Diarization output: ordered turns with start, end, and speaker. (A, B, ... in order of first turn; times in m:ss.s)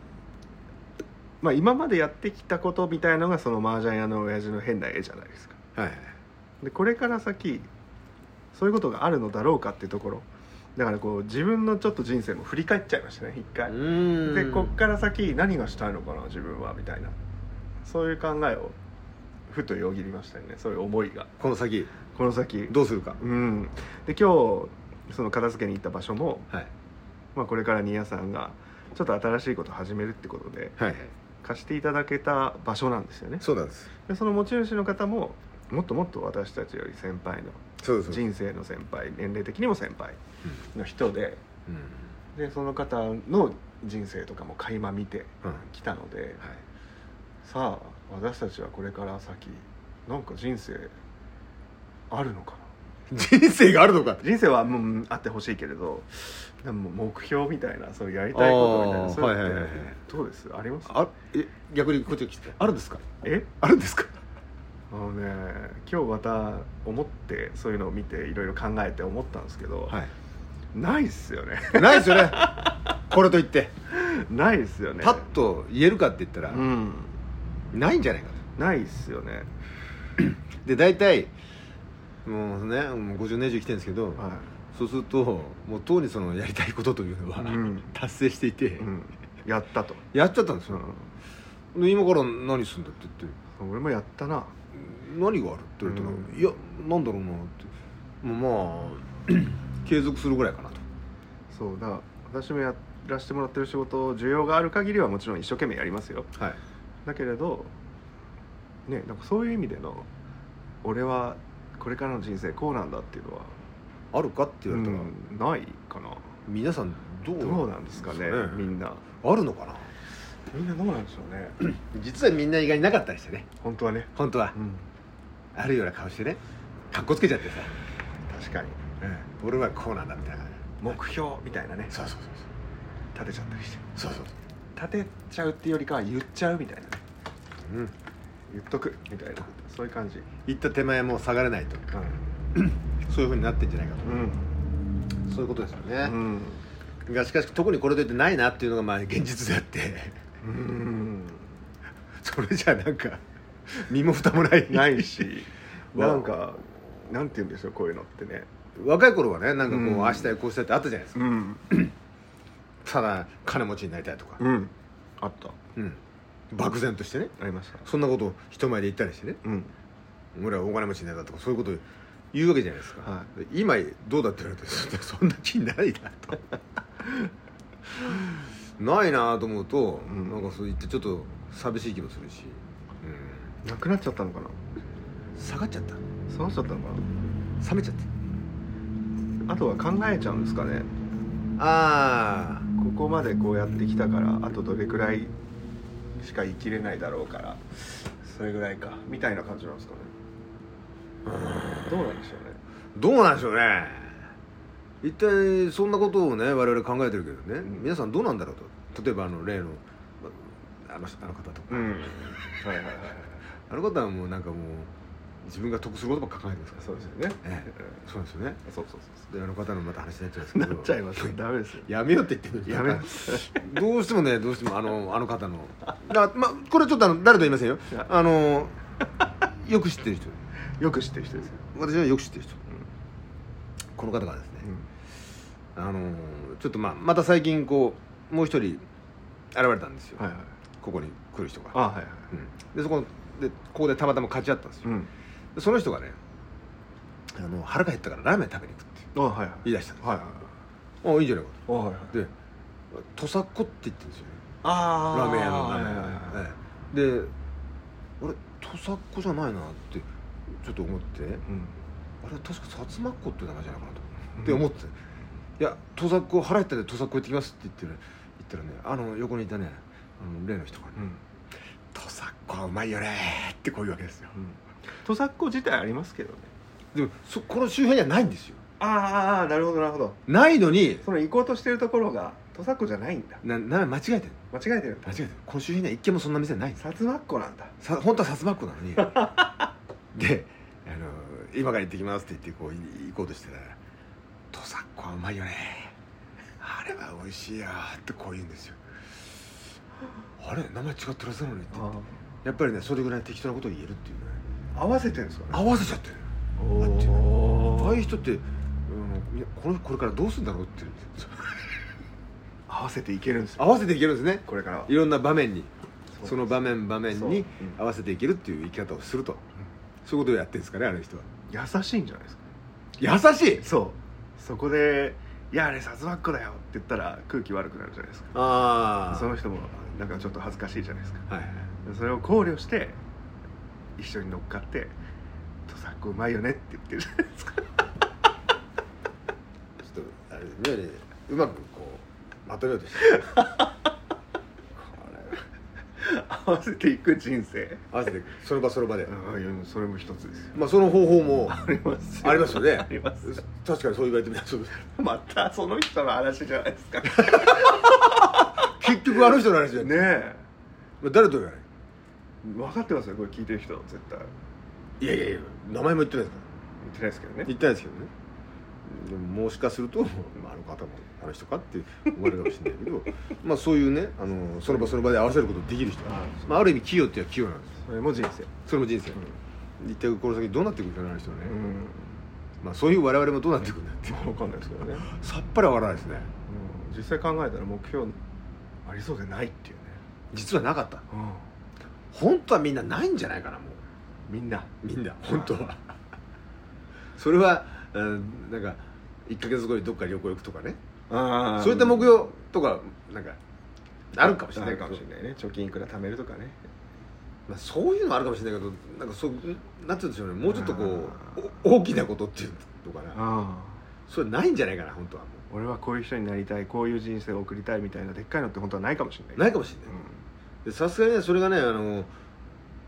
0:01.4-0:05.6 A
0:05.8-0:06.2 B
0:06.6-0:07.7 A
0:08.5-0:17.2 A
0:13.7-0:14.8 B
0:17.8-0:18.8 A
0:19.5-0:21.3 A
0:21.4-0:21.9 B
0:22.1-0:26.5 A
0:22.7-0:23.2 B
0:27.4-0:30.8 A
0:30.8-0:31.1 B
0:31.4-0:33.5 A
0:33.4-0:33.9 B
0:34.1-0:40.2 A
0:37.8-0:38.2 B
0:40.7-0:41.4 A
0:41.7-0:42.1 B
0:42.4-0:46.4 A
0:47.4-0:50.9 A
0:52.1-0:52.7 A
0:53.1-0:54.2 B
0:54.2-1:01.0 A
0:58.3-1:00.0 B
1:00.9-1:03.1 B
1:03.2-1:03.5 A
1:03.6-1:04.1 B
1:04.9-1:10.0 A
1:10.7-1:12.9 A
1:11.8-1:12.6 B
1:13.1-1:13.7 B
1:13.9-1:15.3 A
1:15.0-1:16.6 B
1:16.5-1:17.2 A
1:17.7-1:18.4 B
1:18.6-1:19.5 A
1:20.2-1:21.3 B
1:22.2-1:28.9 B
1:24.2-1:24.5 A
1:27.4-1:27.9 A
1:28.8-1:30.1 A
1:30.1-1:30.8 B
1:30.7-1:31.1 A
1:31.7-1:33.4 B
1:33.6-1:34.5 A
1:34.7-1:37.7 B
1:35.8-1:36.4 A
1:38.2-1:40.8 B
1:41.5-1:46.3 A
1:47.0-1:47.7 A
1:48.9-1:50.1 A
1:50.8-1:53.6 A
1:54.1-1:55.1 B
1:54.7-1:56.3 A
1:56.5-1:58.7 B
1:57.4-1:59.0 A
1:59.2-1:59.9 B
2:00.5-2:01.6 A
2:01.6-2:03.5 B
2:03.6-2:04.8 A
2:04.2-2:04.6 B
2:05.6-2:06.4 B
2:06.9-2:07.7 B
2:08.3-2:08.8 A
2:09.0-2:11.0 B
2:10.8-2:11.9 A
2:11.9-2:12.5 B
2:13.1-2:13.9 A
2:14.0-2:14.3 B
2:14.8-2:17.0 A
2:17.6-2:17.9 B
2:18.5-2:20.3 A
2:20.5-2:22.0 B
2:21.9-2:22.2 A
2:22.6-2:24.2 B
2:24.0-2:24.5 A
2:25.3-2:26.2 B
2:26.0-2:26.6 A
2:27.1-2:30.2 B
2:30.4-2:31.5 A
2:32.2-2:35.4 B
2:34.6-2:38.5 A
2:36.0-2:36.3 B
2:38.8-2:41.9 B
2:39.6-2:40.3 A
2:41.2-2:41.7 A
2:42.8-2:44.4 B
2:44.4-2:45.6 A
2:45.8-2:47.3 B
2:47.4-2:47.8 A
2:47.8-2:49.4 B
2:49.4-2:49.7 A
2:50.4-2:56.4 B
2:53.0-2:53.3 A
2:58.8-3:03.5 B
3:00.0-3:00.5 A
3:03.6-3:04.6 A
3:05.4-3:06.0 B
3:06.3-3:07.1 A
3:07.6-3:08.1 B
3:09.5-3:10.9 A
3:11.6-3:12.7 B
3:12.8-3:15.3 A
3:16.2-3:20.1 A
3:21.2-3:22.1 B
3:21.8-3:22.6 A
3:23.0-3:24.2 B
3:25.0-3:32.4 B
3:27.7-3:27.9 A
3:31.7-3:33.4 A
3:33.7-3:38.6 B
3:36.8-3:38.0 A
3:38.6-3:39.3 A
3:39.3-3:48.8 B
3:40.4-3:41.9 A
3:42.6-3:43.7 A
3:49.4-3:50.4 B
3:50.8-3:51.6 A
3:51.7-3:52.6 B
3:54.0-3:54.7 B
3:55.8-3:58.9 B
3:59.5-4:00.2 B
4:00.2-4:00.5 A
4:00.8-4:04.9 B
4:01.7-4:02.3 A
4:04.8-4:05.1 A
4:05.6-4:06.2 B
4:07.3-4:09.1 B
4:09.2-4:10.5 A
4:09.6-4:10.3 B
4:11.0-4:12.3 B
4:11.7-4:12.2 A
4:12.9-4:14.4 B
4:14.6-4:16.4 A
4:15.1-4:17.3 B
4:18.2-4:21.4 B
4:21.5-4:21.8 A
4:22.2-4:24.9 B
4:24.4-4:24.6 A
4:25.6-4:31.1 B
4:31.9-4:34.3 B
4:34.4-4:36.5 A
4:36.9-4:38.6 B
4:38.8-4:40.2 A
4:40.3-4:41.0 B
4:41.0-4:43.4 A
4:43.4-4:44.4 B
4:44.5-4:45.2 A
4:45.1-4:46.8 B
4:46.8-4:47.7 A
4:47.8-4:49.3 B
4:49.0-4:49.6 A
4:50.1-4:53.8 B
4:54.5-4:55.9 B
4:56.6-4:58.8 B
5:00.4-5:01.9 B
5:01.7-5:02.2 A
5:02.4-5:04.5 B
5:04.7-5:05.6 A
5:05.5-5:06.3 B
5:06.6-5:08.1 A
5:06.8-5:11.6 B
5:12.7-5:13.8 A
5:13.6-5:15.7 B
5:14.5-5:14.9 A
5:16.2-5:17.8 A
5:16.2-5:19.4 B
5:20.0-5:21.3 B
5:21.5-5:22.5 A
5:23.0-5:23.7 B
5:23.6-5:28.3 A
5:28.3-5:29.3 B
5:29.0-5:31.3 A
5:31.3-5:31.7 B
5:31.8-5:33.0 A
5:34.0-5:35.0 A
5:35.7-5:37.8 A
5:39.8-5:43.3 B
5:43.1-5:43.7 A
5:44.8-5:45.4 A
5:46.0-5:47.8 A
5:47.9-5:49.1 B
5:49.0-5:50.6 A
5:50.6-5:51.6 B
5:51.5-5:53.4 A
5:52.2-5:54.9 B
5:54.9-6:00.4 A
5:57.3-5:57.9 B
5:58.6-6:00.1 B
6:01.0-6:01.7 B
6:02.4-6:04.3 A
6:05.0-6:06.4 B
6:06.8-6:07.5 A
6:07.4-6:08.1 B
6:08.8-6:17.8 B
6:16.1-6:16.5 A
6:17.8-6:18.5 A
6:18.7-6:19.2 B
6:19.8-6:21.6 B
6:21.4-6:22.2 A
6:22.6-6:24.3 B
6:24.1-6:25.1 A
6:25.0-6:26.3 B
6:26.5-6:28.2 A
6:28.9-6:30.0 A
6:30.3-6:31.0 B
6:31.1-6:31.5 A
6:32.1-6:33.8 B
6:34.3-6:34.7 A
6:34.8-6:35.9 B
6:37.2-6:40.8 B
6:41.1-6:42.3 A
6:41.6-6:43.4 B
6:44.1-6:45.0 B
6:44.2-6:46.6 A
6:47.5-6:53.2 B
6:50.5-6:51.4 A
6:53.1-6:53.8 A
6:54.1-6:55.4 B
6:55.5-7:00.2 A
6:59.4-6:59.9 B
7:00.6-7:02.1 B